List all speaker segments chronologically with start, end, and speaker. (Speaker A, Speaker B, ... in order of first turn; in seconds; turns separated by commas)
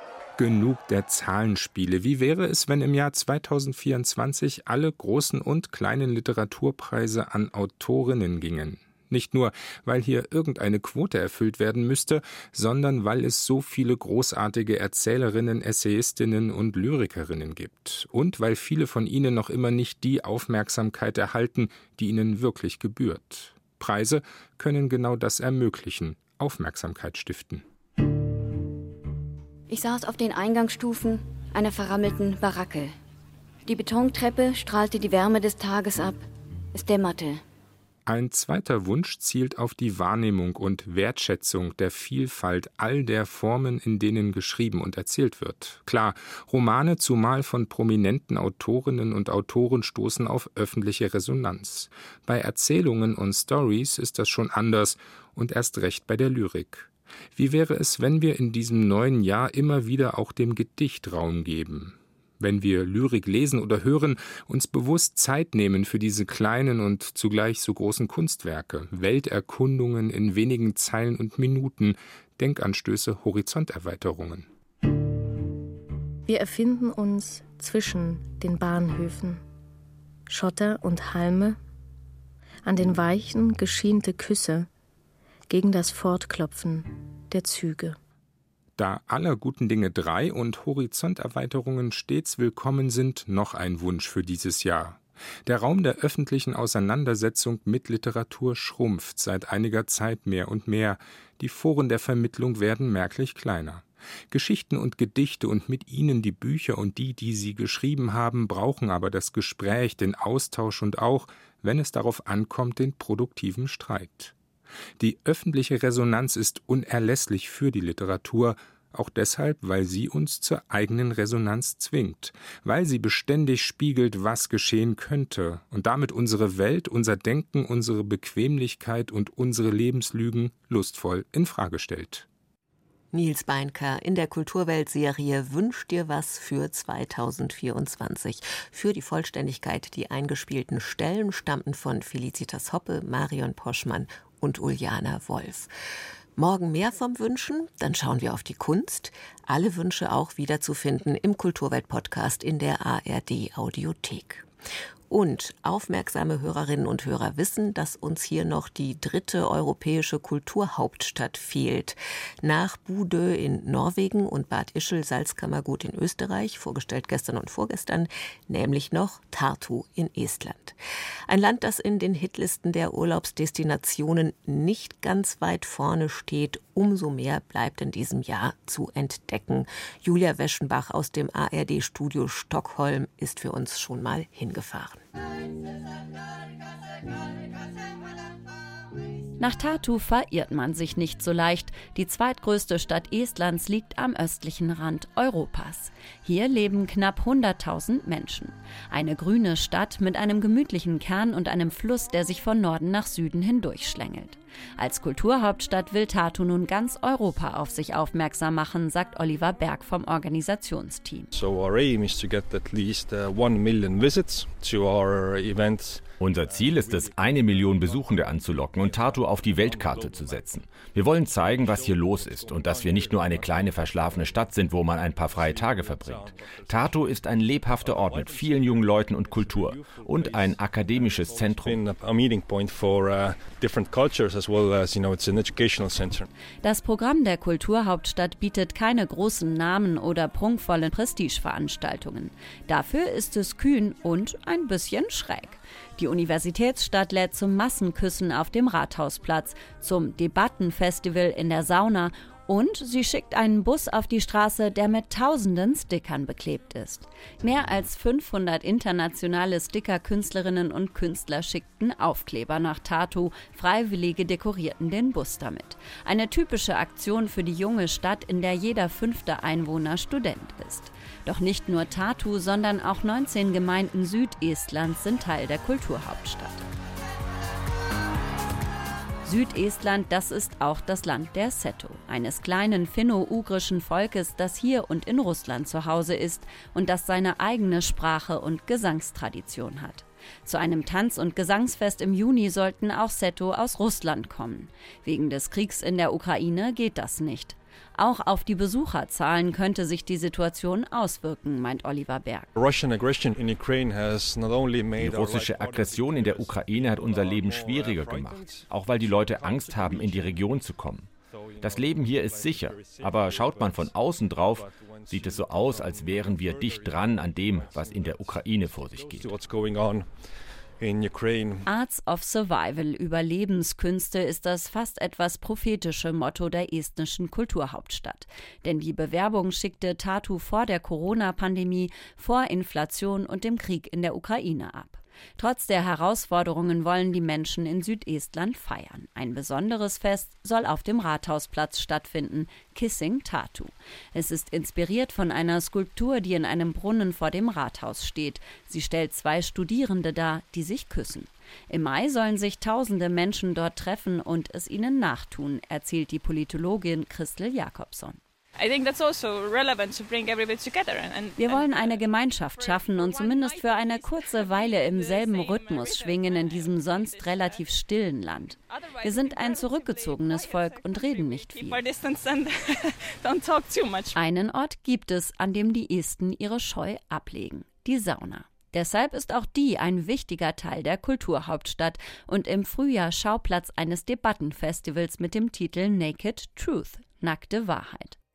Speaker A: 0.4-27.6, Speaker B: 29.7-32.9, Speaker B: 33.6-37.4, Speaker A: 38.0-74.5, Speaker C: 76.3-79.4, Speaker C: 80.3-81.6, Speaker C: 82.7-84.7, Speaker C: 85.5-88.0, Speaker A: 88.8-114.3, Speaker A: 115.0-132.2, Speaker D: 133.1-145.7, Speaker D: 146.4-154.5, Speaker D: 155.1-170.8, Speaker D: 171.3-185.0, Speaker E: 189.4-211.3, Speaker F: 211.3-236.3, Speaker G: 216.2-231.8, Speaker E: 236.6-276.6, Speaker E: 279.2-302.5, Speaker F: 302.5-310.6, Speaker G: 305.0-319.4, Speaker F: 311.3-321.6, Speaker E: 321.6-358.2, Speaker H: 358.6-367.7, Speaker E: 361.4-371.8, Speaker H: 368.6-374.1, Speaker E: 374.1-388.2